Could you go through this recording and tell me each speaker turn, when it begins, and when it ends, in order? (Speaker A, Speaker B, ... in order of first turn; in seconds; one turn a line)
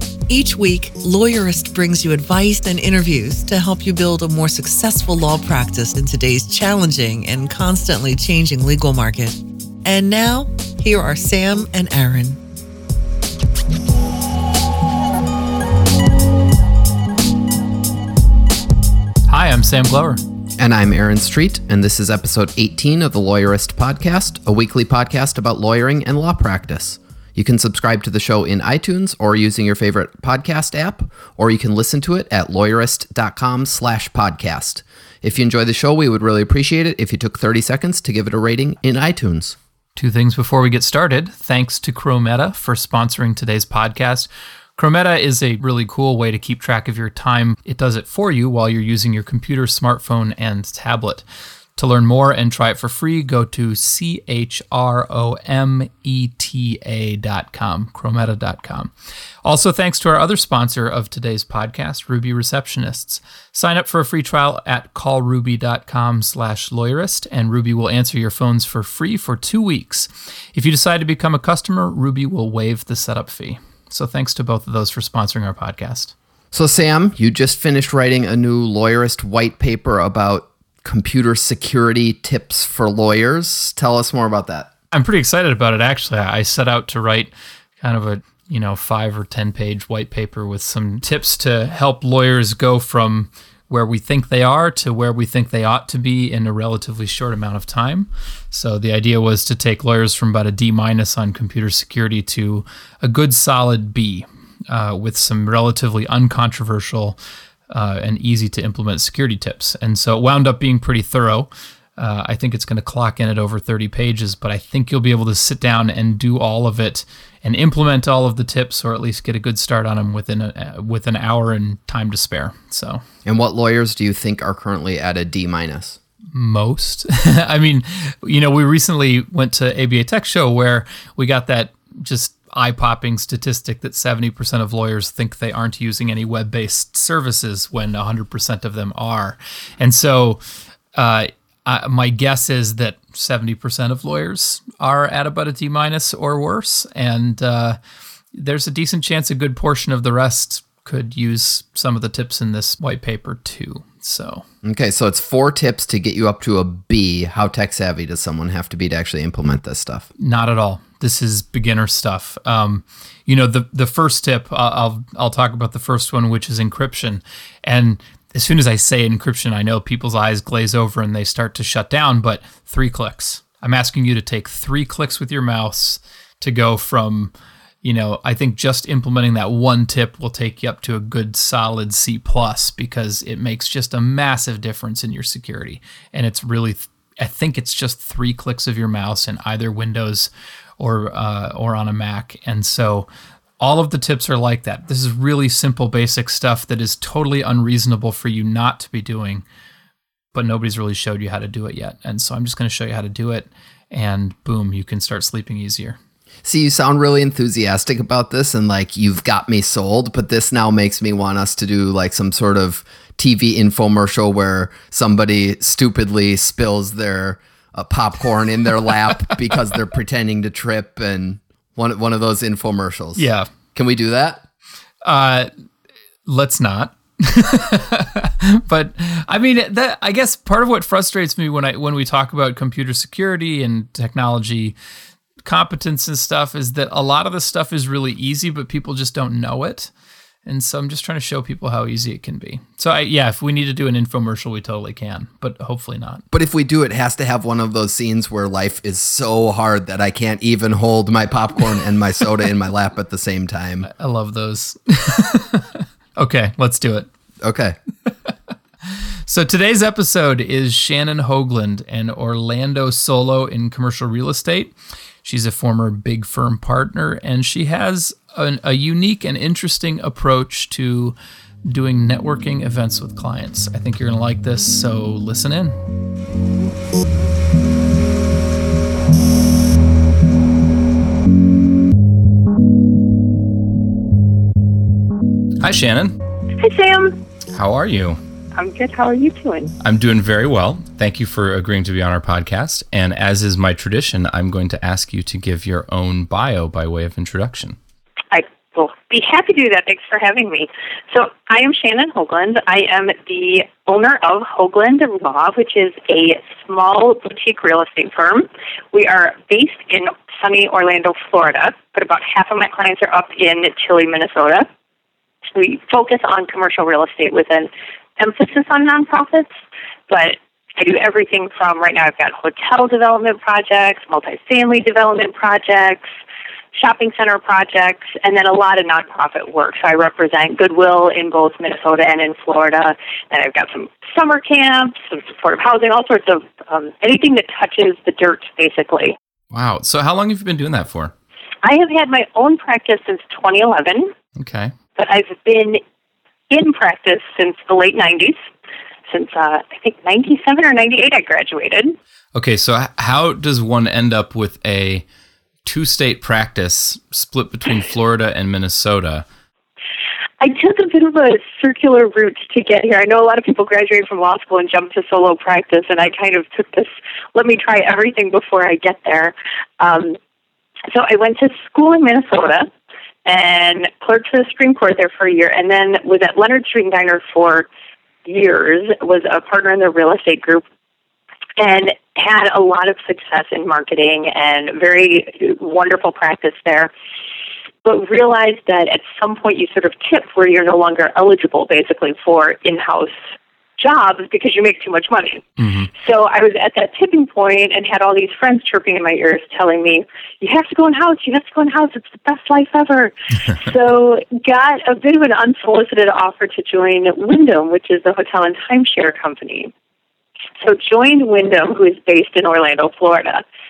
Speaker A: 0.3-12.4
Speaker B: 19.3-20.2
Speaker C: 20.6-39.5
Speaker B: 40.0-51.2
Speaker B: 51.8-58.9
Speaker B: 59.4-76.1
Speaker C: 76.5-84.7
Speaker B: 84.9-107.2
Speaker B: 107.7-123.0
Speaker C: 123.2-126.0
Speaker B: 126.3-140.4
Speaker B: 140.9-147.8
Speaker B: 148.3-154.4
Speaker C: 154.6-160.1
Speaker B: 160.2-177.3
Speaker B: 177.8-193.1
Speaker B: 193.6-199.4
Speaker B: 200.3-206.0
Speaker C: 206.4-224.4
Speaker B: 223.2-223.5
Speaker B: 225.0-225.5
Speaker B: 226.2-234.8
Speaker B: 235.4-239.9
Speaker B: 240.4-246.2
Speaker C: 246.3-253.9
Speaker B: 253.9-257.1
Speaker C: 257.4-257.8
Speaker B: 258.9-271.1
Speaker B: 271.7-275.8
Speaker B: 285.6-286.1
Speaker D: 286.6-287.2
Speaker B: 287.5-288.2
Speaker D: 288.5-289.7
Speaker B: 289.8-297.8
Speaker D: 298.3-314.7
Speaker D: 315.5-319.5
Speaker D: 320.1-326.1
Speaker D: 326.7-339.1
Speaker B: 339.5-341.1
Speaker D: 341.6-344.1
Speaker B: 344.4-344.7
Speaker D: 345.0-345.8
Speaker D: 346.5-348.4
Speaker D: 349.1-351.9
Speaker B: 352.3-355.0
Speaker B: 355.6-359.2
Speaker D: 360.4-370.2
Speaker D: 370.9-372.7
Speaker D: 373.2-377.7
Speaker D: 378.2-380.6
Speaker D: 381.6-386.9
Speaker D: 387.8-393.2
Speaker D: 393.8-409.7
Speaker B: 395.6-395.9
Speaker D: 410.6-413.4